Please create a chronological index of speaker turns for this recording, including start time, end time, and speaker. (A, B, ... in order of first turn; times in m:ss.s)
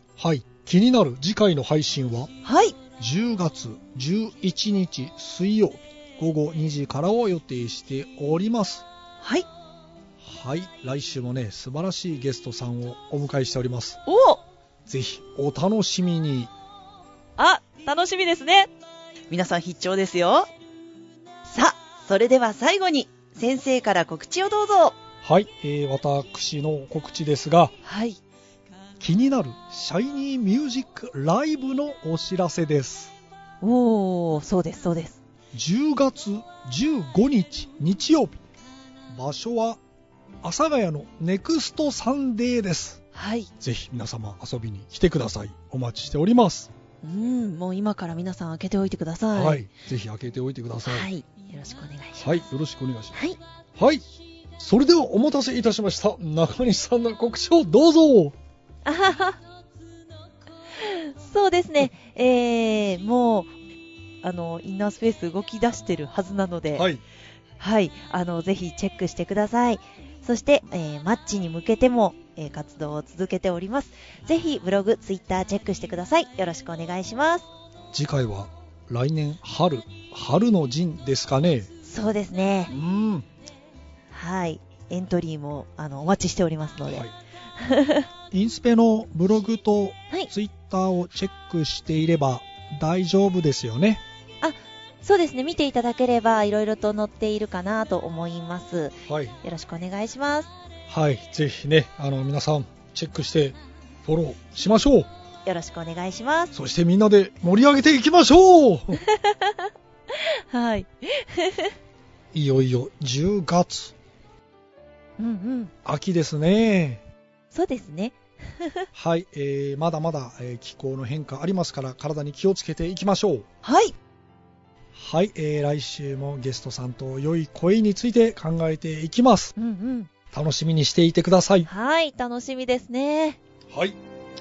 0:00.2-0:02.3 A
0:02.4-0:02.8 B
0:03.0-0:08.9 A
0:09.2-0:09.5 B
0:10.2-0:14.0 A
0:14.1-0:14.4 B
0:14.9-0:16.5 A
0:17.4-0:18.7 B
0:19.3-0:20.5 B
0:21.5-0:25.0 B
0:25.2-0:27.7 A
0:27.8-0:28.2 B
0:29.0-0:33.1 A
0:33.6-0:35.2 B
0:35.5-0:38.4 A
0:39.1-0:39.8 A
0:40.4-0:43.0 A
0:43.1-0:43.5 B
0:43.6-0:46.7 A
0:47.0-0:49.6 B
0:49.3-0:51.1 A
0:50.9-0:52.5 B
0:52.2-0:53.2 A
0:53.1-0:53.4 B
0:53.8-0:54.0 A
0:54.6-0:58.4 A
0:58.8-0:59.4 B
1:00.8-1:03.5 B
1:04.2-1:06.9 B
1:06.7-1:07.0 A
1:07.6-1:17.5 B
1:17.9-1:21.7 A
1:21.8-1:22.7 B
1:22.7-1:23.3 A
1:24.1-1:27.1 B
1:27.6-1:28.1 B
1:28.3-1:34.0 A
1:34.4-1:40.5 B
1:39.1-1:39.4 A
1:40.9-1:45.1 A
1:45.4-1:46.5 B
1:46.5-1:49.0 A
1:49.0-1:49.6 B
1:50.5-1:51.7 B
1:52.3-1:53.9 A
1:55.2-1:55.7 B
1:55.8-1:57.0 A
1:57.5-1:58.9 B
1:58.9-2:03.5 A
2:03.6-2:04.0 B
2:05.0-2:09.5 A
2:09.6-2:10.1 B
2:10.3-2:11.7 A
2:11.7-2:13.4 B
2:13.7-2:14.0 A